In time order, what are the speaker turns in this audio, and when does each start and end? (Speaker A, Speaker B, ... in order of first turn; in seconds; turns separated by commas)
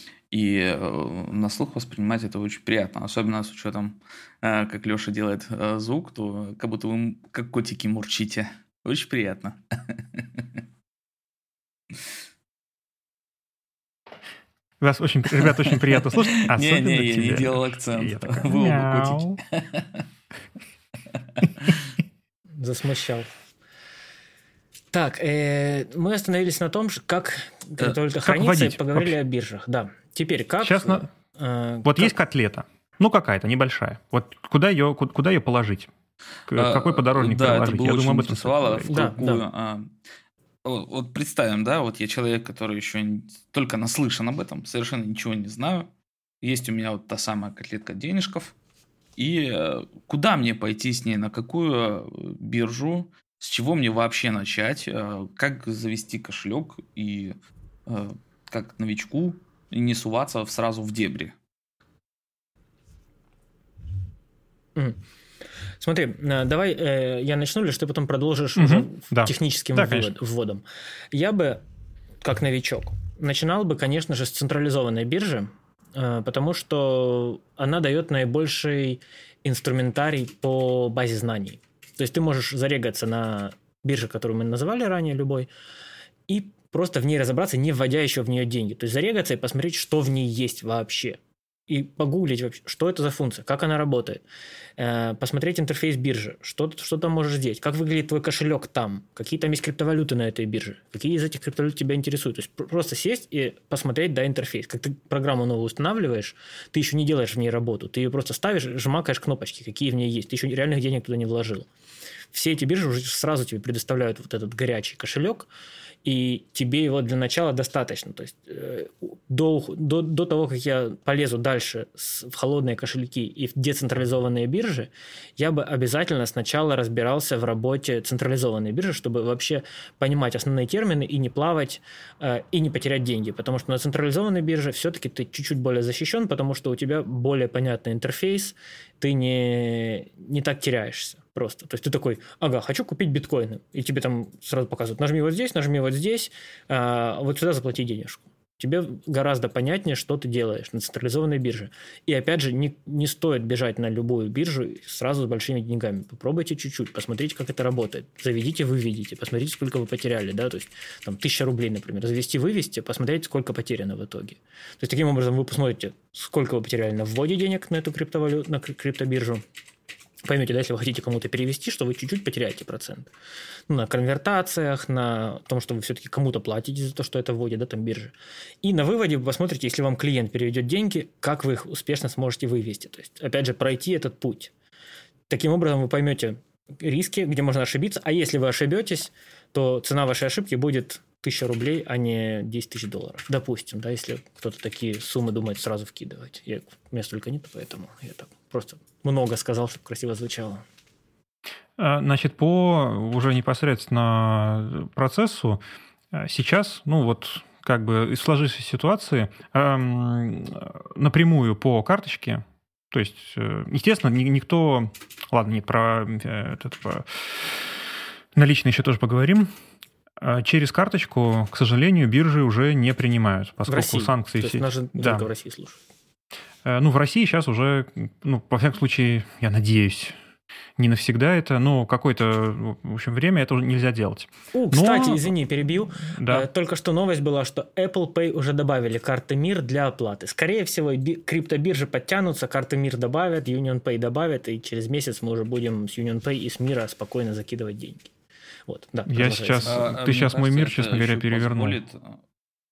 Speaker A: 0.3-10.4, Speaker B: 14.8-19.4, Speaker A: 15.4-20.0, Speaker C: 22.6-23.3, Speaker C: 24.9-32.1, Speaker B: 28.1-29.1, Speaker B: 30.6-31.1, Speaker B: 31.8-35.9, Speaker B: 36.5-38.9, Speaker A: 36.5-39.9, Speaker C: 38.9-39.4, Speaker A: 40.6-45.9, Speaker A: 46.4-48.5, Speaker A: 49.2-61.4, Speaker C: 64.7-65.0, Speaker C: 65.8-71.6, Speaker B: 68.6-70.1, Speaker C: 72.2-85.5, Speaker C: 86.3-94.2, Speaker C: 94.8-111.7, Speaker C: 112.3-115.5, Speaker C: 116.0-169.4, Speaker C: 170.2-173.1, Speaker C: 173.7-184.5, Speaker C: 185.3-200.6, Speaker B: 201.8-205.6, Speaker B: 206.1-217.7, Speaker B: 218.3-219.5, Speaker B: 220.2-225.2, Speaker C: 223.7-225.8, Speaker B: 226.6-230.1, Speaker B: 230.8-235.3, Speaker C: 234.5-248.1, Speaker B: 236.1-236.4, Speaker C: 248.7-249.9, Speaker B: 249.1-251.8, Speaker A: 249.6-252.2